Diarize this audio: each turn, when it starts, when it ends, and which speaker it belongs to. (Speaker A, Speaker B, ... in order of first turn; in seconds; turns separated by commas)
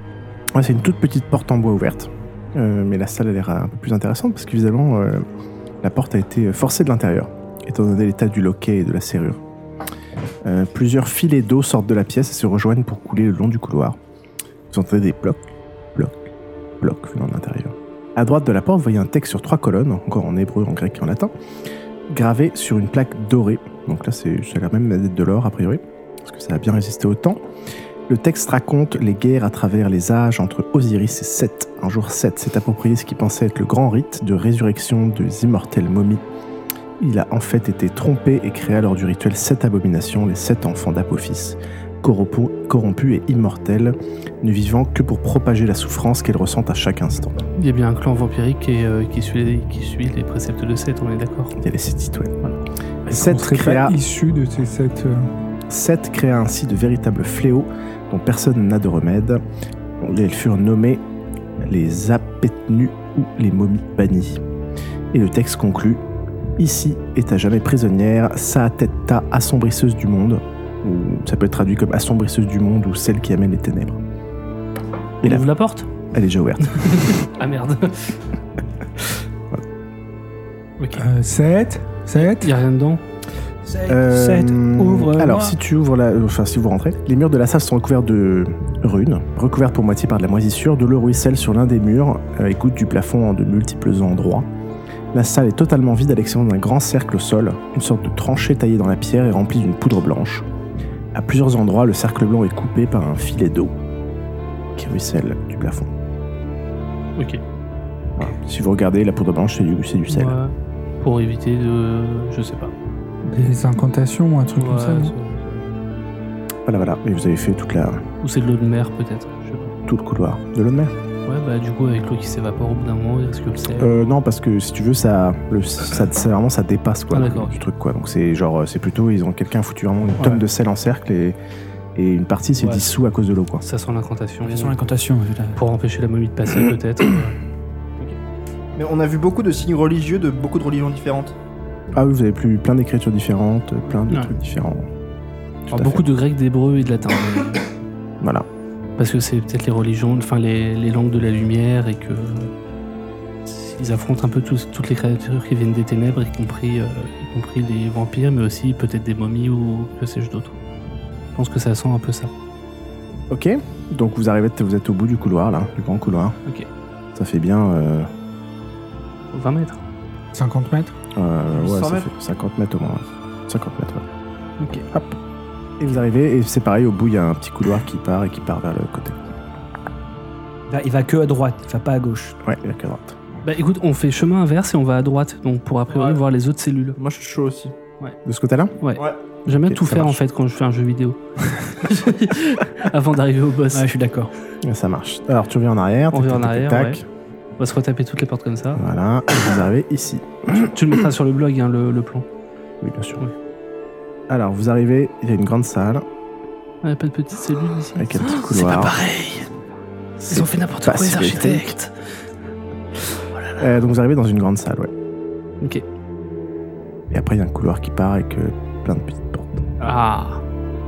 Speaker A: 0.5-5.2, Speaker A: 5.8-9.4, Speaker A: 10.4-14.0, Speaker A: 14.7-15.4, Speaker A: 15.9-16.3, Speaker A: 16.8-21.3, Speaker A: 22.1-27.4, Speaker A: 28.1-36.2, Speaker A: 37.0-47.4, Speaker B: 47.6-51.5, Speaker A: 51.6-52.3, Speaker B: 52.4-53.1, Speaker A: 53.1-54.0, Speaker C: 53.1-55.2, Speaker A: 55.7-59.4, Speaker A: 60.0-61.0, Speaker A: 61.6-64.4, Speaker A: 65.1-66.0, Speaker A: 66.6-74.0, Speaker B: 75.2-75.9, Speaker A: 76.1-77.1, Speaker B: 76.6-78.2, Speaker B: 80.8-81.0, Speaker C: 80.9-82.5, Speaker B: 82.2-83.0, Speaker D: 83.6-85.5, Speaker A: 83.9-94.5, Speaker A: 95.1-100.5, Speaker A: 101.1-103.7, Speaker A: 104.8-105.9, Speaker B: 107.2-107.4, Speaker A: 108.2-110.3, Speaker B: 110.1-112.7, Speaker C: 113.3-115.1, Speaker B: 114.5-115.7, Speaker A: 116.7-118.0, Speaker B: 118.2-119.7, Speaker A: 119.8-120.9, Speaker B: 121.3-123.9, Speaker A: 123.8-131.4, Speaker B: 127.1-127.6, Speaker A: 131.9-133.6, Speaker B: 132.5-132.9, Speaker B: 133.6-134.8, Speaker D: 134.4-135.6, Speaker B: 135.6-137.4, Speaker E: 138.8-141.3, Speaker A: 141.9-144.9, Speaker A: 145.7-146.0, Speaker B: 145.7-147.7, Speaker A: 148.2-148.4, Speaker B: 149.0-152.5, Speaker B: 153.4-160.5, Speaker B: 161.3-162.3, Speaker A: 163.3-166.4, Speaker A: 167.1-168.1, Speaker B: 169.3-169.8, Speaker C: 170.3-170.9, Speaker A: 171.1-174.1, Speaker E: 171.5-172.1, Speaker B: 174.6-174.9, Speaker A: 174.9-175.2, Speaker A: 175.8-179.3, Speaker D: 180.7-182.3, Speaker A: 182.4-183.2, Speaker B: 183.4-187.0, Speaker E: 185.9-186.2, Speaker E: 186.9-187.8, Speaker A: 188.2-188.8, Speaker B: 188.8-193.9, Speaker E: 188.9-189.3, Speaker A: 189.4-190.2, Speaker D: 193.7-194.3, Speaker A: 194.6-197.0, Speaker B: 196.1-197.0, Speaker B: 197.6-198.8, Speaker A: 198.8-201.0, Speaker B: 200.6-202.2, Speaker A: 202.8-203.2, Speaker A: 204.3-206.0, Speaker B: 206.8-209.5, Speaker A: 207.9-208.9, Speaker A: 210.2-211.7, Speaker B: 210.3-211.9, Speaker B: 213.3-213.6, Speaker A: 213.6-214.9, Speaker A: 217.1-219.7, Speaker B: 219.8-220.4